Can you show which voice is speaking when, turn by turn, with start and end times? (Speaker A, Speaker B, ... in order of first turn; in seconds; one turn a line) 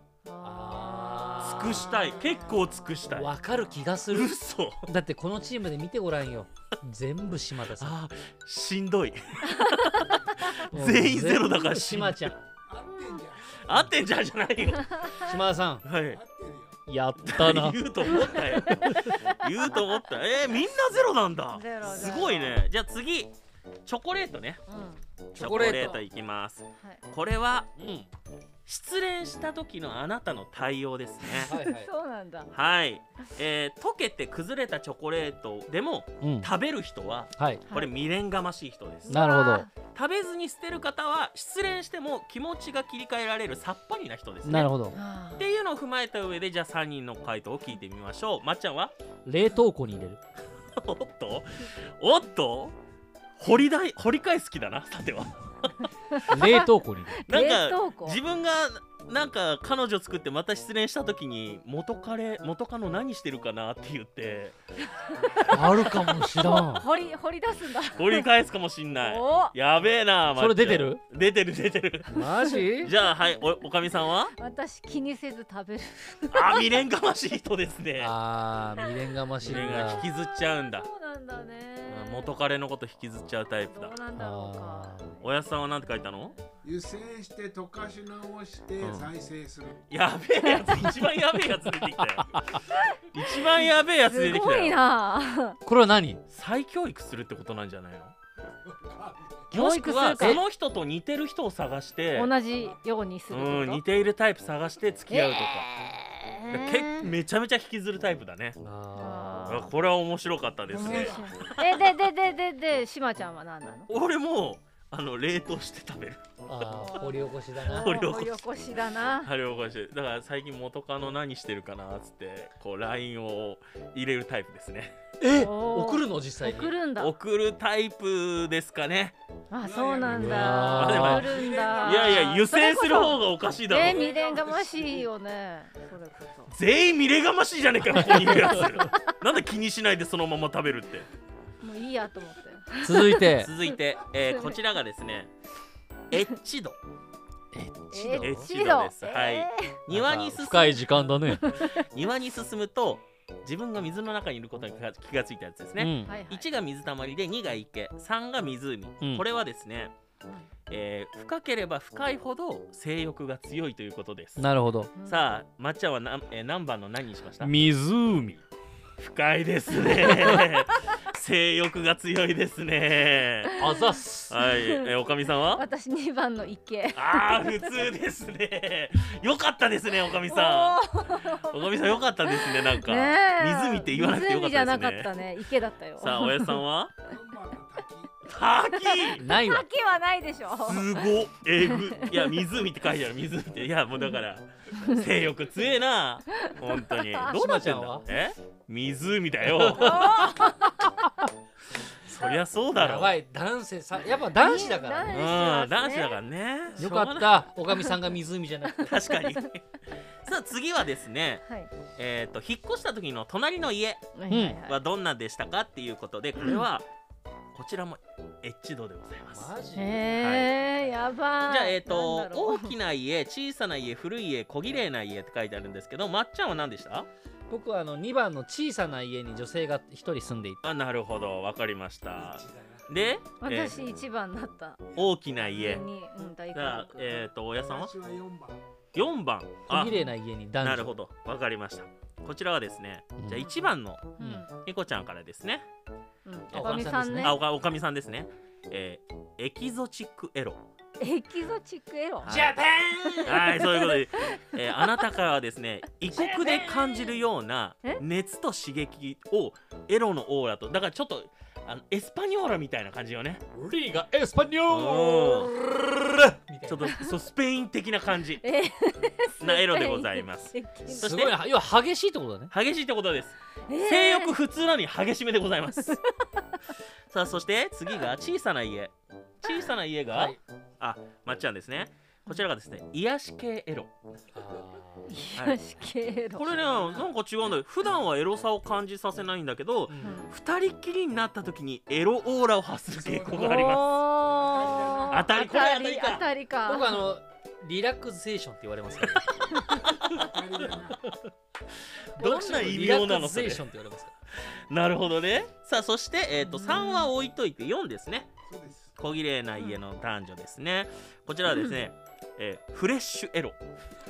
Speaker A: 0.2-2.8
Speaker B: 0.4-2.0
Speaker C: 1.4-3.3
Speaker B: 3.1-8.0
Speaker C: 4.1-4.9
Speaker C: 7.8-12.3
Speaker B: 10.6-12.4
Speaker D: 12.7-13.9
Speaker C: 13.5-15.1
Speaker B: 15.2-15.9
Speaker C: 15.8-16.2
Speaker D: 16.0-16.8
Speaker B: 16.9-18.1
Speaker C: 17.2-23.3
Speaker A: 18.1-19.2
Speaker B: 18.7-19.1
Speaker A: 21.5-22.5
Speaker D: 21.8-22.6
Speaker C: 23.9-24.6
Speaker A: 24.7-25.0
Speaker B: 25.3-26.0
Speaker C: 25.4-27.7
Speaker B: 27.8-28.1
Speaker C: 28.6-31.5
Speaker B: 31.5-31.9
Speaker A: 31.5-32.5
Speaker C: 32.5-39.2
Speaker B: 36.2-36.5
Speaker B: 37.4-37.7
Speaker A: 39.1-39.7
Speaker B: 39.1-39.7
Speaker C: 39.8-44.7
Speaker B: 44.4-45.0
Speaker A: 44.9-45.5
Speaker C: 45.4-48.9
Speaker B: 49.2-50.2
Speaker C: 50.8-52.7
Speaker C: 53.4-55.9
Speaker A: 56.2-56.6
Speaker B: 56.3-57.3
Speaker A: 57.2-58.2
Speaker C: 57.3-64.5
Speaker A: 64.9-68.3
Speaker B: 65.5-66.9
Speaker C: 65.5-66.2
Speaker C: 67.9-72.2
Speaker A: 69.0-69.5
Speaker B: 70.3-71.0
Speaker B: 72.1-72.9
Speaker A: 72.4-72.9
Speaker C: 72.8-74.3
Speaker A: 74.3-76.7
Speaker C: 76.3-78.1
Speaker B: 78.0-80.1
Speaker C: 79.4-80.9
Speaker A: 79.9-82.4
Speaker C: 81.9-84.0
Speaker A: 83.6-85.2
Speaker B: 84.2-85.2
Speaker C: 85.2-86.3
Speaker A: 85.9-86.4
Speaker D: 86.6-89.9
Speaker C: 88.8-89.1
Speaker C: 89.9-92.4
Speaker B: 92.3-92.6
Speaker A: 92.7-93.0
Speaker C: 93.0-94.8
Speaker A: 94.0-95.6
Speaker B: 95.6-96.2
Speaker C: 96.3-98.1
Speaker D: 98.7-99.5
Speaker C: 99.5-102.3
Speaker A: 99.5-100.4
Speaker B: 100.2-100.4
Speaker A: 102.1-103.8
Speaker C: 103.3-105.7
Speaker A: 105.1-107.1
Speaker C: 106.5-108.6
Speaker B: 108.6-109.7
Speaker A: 108.9-109.7
Speaker C: 109.5-111.9
Speaker B: 110.7-111.1
Speaker A: 110.7-113.9
Speaker C: 113.9-116.3
Speaker B: 116.5-117.9
Speaker A: 116.8-119.3
Speaker C: 117.7-118.4
Speaker C: 119.2-125.0
Speaker B: 125.2-126.8
Speaker A: 125.3-127.1
Speaker C: 127.0-129.2
Speaker A: 129.5-136.5
Speaker D: 129.6-132.3
Speaker B: 130.0-131.4
Speaker C: 130.7-134.1
Speaker D: 133.7-135.1
Speaker C: 136.5-141.1
Speaker A: 141.6-143.3
Speaker B: 142.8-143.5
Speaker C: 143.3-145.3
Speaker A: 144.2-144.6
Speaker C: 146.1-146.8
Speaker B: 147.5-148.5
Speaker A: 147.9-149.8
Speaker C: 148.2-151.0
Speaker B: 149.9-151.5
Speaker A: 151.3-151.8
Speaker C: 151.5-159.9
Speaker B: 155.8-156.1
Speaker A: 156.1-156.5
Speaker C: 160.7-164.5
Speaker B: 164.4-164.9
Speaker A: 165.0-165.3
Speaker C: 165.0-167.5
Speaker B: 167.4-168.4
Speaker C: 169.0-173.5
Speaker B: 169.9-170.4
Speaker A: 169.9-170.4
Speaker A: 173.5-174.9
Speaker B: 173.6-174.4
Speaker C: 174.3-175.6
Speaker A: 175.5-177.8
Speaker C: 176.9-185.1
Speaker A: 180.3-186.6
Speaker C: 186.0-187.0
Speaker D: 187.1-188.3
Speaker C: 188.2-189.2
Speaker A: 188.8-191.0
Speaker B: 189.1-189.7
Speaker C: 190.6-200.6
Speaker A: 191.7-192.1
Speaker A: 194.8-195.0
Speaker A: 196.5-197.3
Speaker B: 197.3-198.0
Speaker B: 199.4-200.1
Speaker A: 199.8-200.7
Speaker C: 202.1-203.2
Speaker B: 202.7-205.3
Speaker A: 204.4-206.2
Speaker C: 205.1-207.5
Speaker B: 206.8-209.0
Speaker C: 208.8-211.4
Speaker A: 209.1-209.4
Speaker A: 211.4-211.7
Speaker C: 211.9-216.9
Speaker A: 214.2-214.8
Speaker B: 214.3-214.6
Speaker C: 217.5-219.5
Speaker B: 219.3-221.1
Speaker A: 219.8-222.8
Speaker C: 220.2-220.5
Speaker C: 221.5-227.1
Speaker B: 227.5-230.6
Speaker C: 230.6-233.8
Speaker D: 232.2-232.8
Speaker A: 233.4-234.8
Speaker C: 234.9-235.9
Speaker A: 235.4-237.3
Speaker C: 236.5-237.9
Speaker D: 237.6-238.6
Speaker C: 238.9-240.0
Speaker B: 239.7-240.9
Speaker C: 240.6-245.6
Speaker B: 243.2-243.5
Speaker A: 243.3-243.6
Speaker B: 244.2-244.4
Speaker A: 244.2-244.5
Speaker A: 246.2-247.4
Speaker B: 246.5-247.3
Speaker C: 246.5-250.6
Speaker A: 251.0-254.9
Speaker C: 252.2-252.6
Speaker B: 252.2-253.8
Speaker C: 253.2-263.4
Speaker B: 256.1-256.9
Speaker B: 263.5-267.0
Speaker C: 264.7-265.5
Speaker C: 266.6-268.4
Speaker A: 268.4-271.2
Speaker C: 269.4-271.4
Speaker B: 270.9-272.5
Speaker C: 272.5-276.0
Speaker A: 273.7-274.3
Speaker C: 277.1-283.9
Speaker B: 280.1-280.4
Speaker B: 284.3-285.1
Speaker A: 285.1-286.6
Speaker C: 285.3-285.6
Speaker C: 286.3-294.0
Speaker D: 286.6-287.0
Speaker B: 289.9-290.2
Speaker A: 290.0-290.3
Speaker D: 292.9-295.3
Speaker A: 293.3-297.1
Speaker C: 295.1-296.3
Speaker B: 296.6-299.3
Speaker C: 299.9-300.2
Speaker D: 300.1-301.1
Speaker B: 302.1-304.1
Speaker C: 302.2-303.6
Speaker C: 304.4-308.3
Speaker A: 306.4-307.1
Speaker D: 308.4-308.9
Speaker C: 309.0-313.6
Speaker A: 311.5-311.8